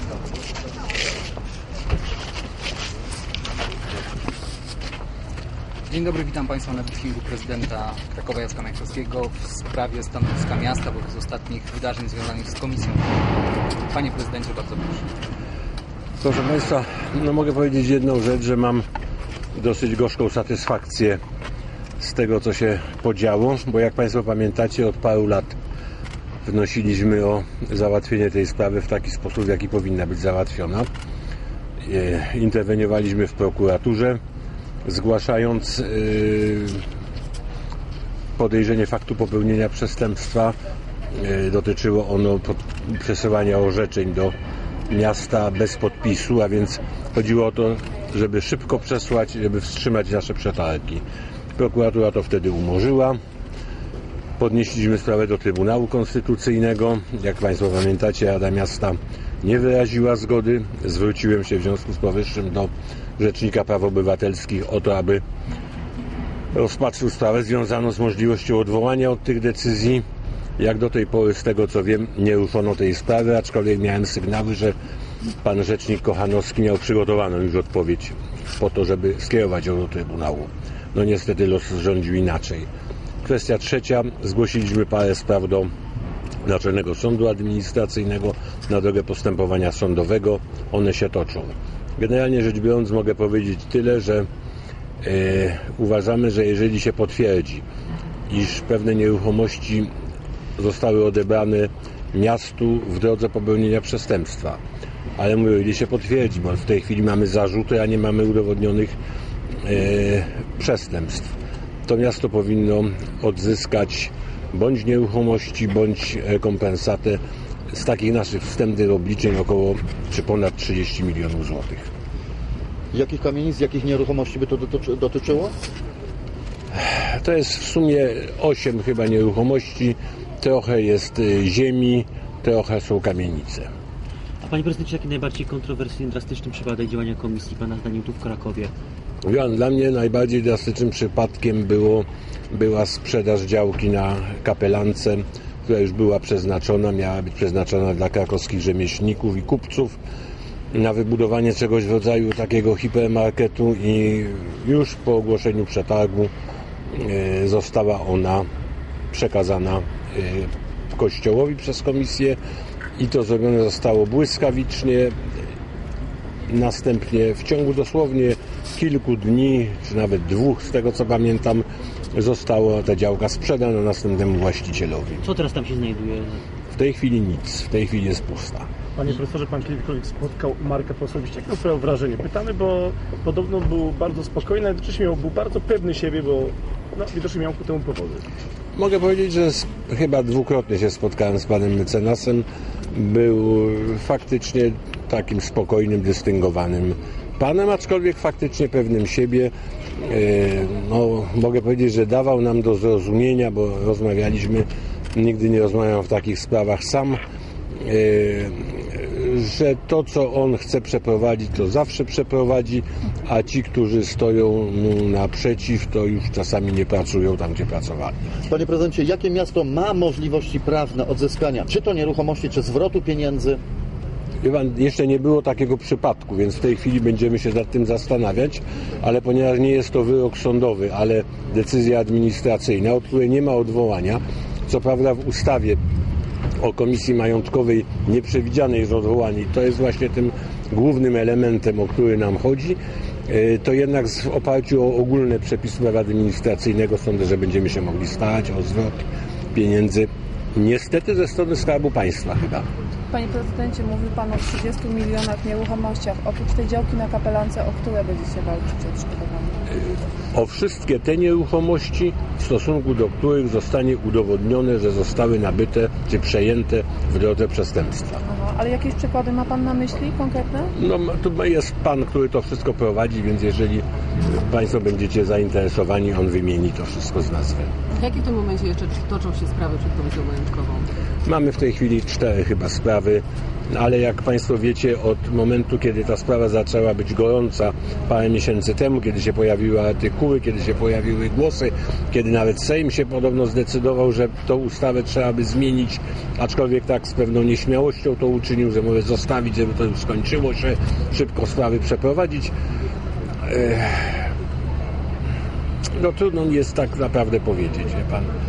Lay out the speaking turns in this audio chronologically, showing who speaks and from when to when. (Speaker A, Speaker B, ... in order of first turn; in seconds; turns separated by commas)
Speaker A: 5.9-13.2, Speaker A: 13.9-15.1, Speaker B: 16.2-18.9, Speaker B: 19.5-21.2, Speaker B: 22.0-25.6, Speaker B: 26.4-30.9, Speaker B: 31.8-34.2, Speaker B: 34.8-36.8, Speaker B: 38.4-40.5, Speaker B: 41.1-44.3, Speaker B: 44.9-51.0, Speaker B: 51.5-53.2, Speaker B: 54.4-65.2, Speaker B: 66.5-70.0, Speaker B: 70.6-74.8, Speaker B: 75.4-82.7, Speaker B: 83.2-85.7, Speaker B: 86.4-94.3, Speaker B: 95.0-97.6, Speaker B: 98.3-99.9, Speaker B: 100.6-104.6, Speaker B: 105.2-109.0, Speaker B: 109.6-111.3, Speaker B: 111.8-121.9, Speaker C: 122.9-125.5, Speaker B: 126.7-133.7, Speaker D: 134.4-138.7, Speaker B: 139.2-150.0, Speaker B: 150.7-156.3, Speaker B: 156.9-158.5, Speaker B: 159.1-162.4, Speaker B: 163.0-165.3, Speaker B: 166.5-175.2, Speaker D: 175.2-176.4, Speaker B: 176.7-178.7, Speaker E: 179.0-188.2, Speaker B: 188.7-207.2, Speaker B: 207.8-218.3, Speaker C: 218.5-223.6, Speaker B: 224.4-235.8, Speaker B: 236.6-252.7, Speaker F: 253.1-259.6, Speaker B: 259.7-268.2, Speaker F: 268.2-270.7, Speaker B: 270.8-277.7, Speaker G: 278.0-280.9, Speaker B: 281.2-302.5, Speaker B: 303.4-304.3, Speaker B: 305.9-308.3